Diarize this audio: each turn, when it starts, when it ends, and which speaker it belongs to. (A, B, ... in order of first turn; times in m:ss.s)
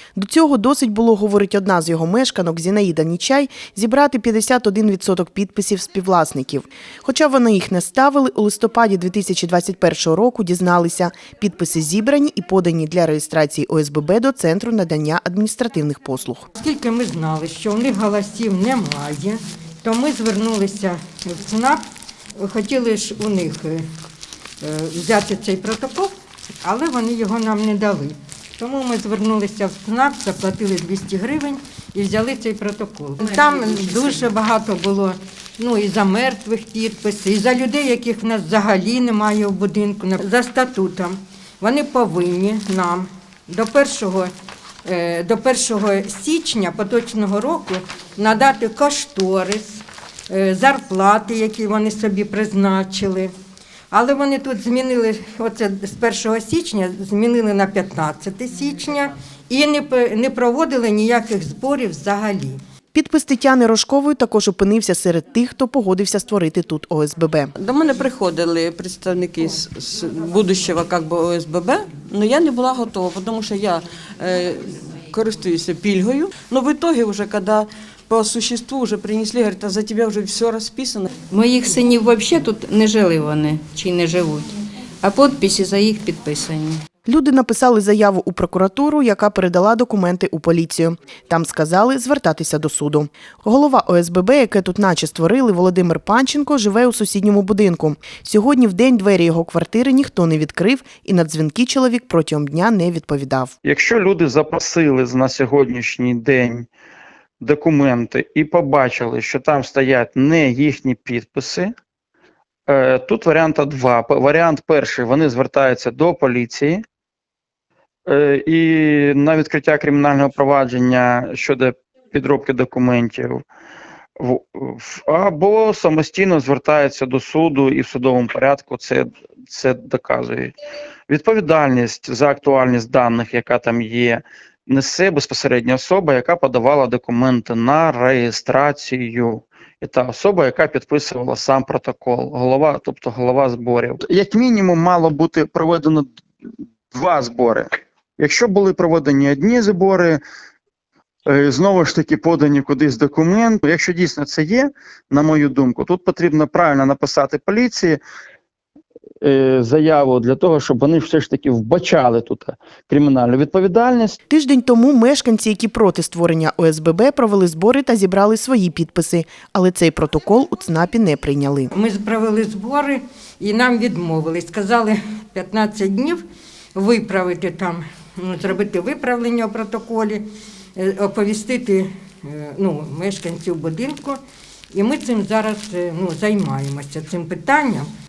0:00.1-0:16.5 A
0:16.5-0:21.8 B
0:22.4-0:23.8 B
0:24.6-0:26.1 B
0:26.6-0:44.3 B
0:44.8-0:53.3 B
0:53.9-1:02.6 B
1:02.9-1:07.5 A
1:07.6-1:21.1 C
1:21.3-1:24.5 D
1:25.0-1:26.8 D
1:27.0-1:43.5 A
1:43.6-1:46.7 E
1:47.4-1:51.7 E
1:52.7-1:56.8 E
1:58.1-2:03.4 E
2:04.2-2:10.6 E
2:11.1-2:26.1 E
2:26.9-2:27.7 E
2:28.2-2:30.2 E
2:31.2-2:38.0 E
2:39.2-2:44.2 E
2:44.3-2:51.7 A
2:51.7-2:56.2 B
2:56.7-3:00.2 B
3:00.8-3:04.2 B
3:04.7-3:07.9 B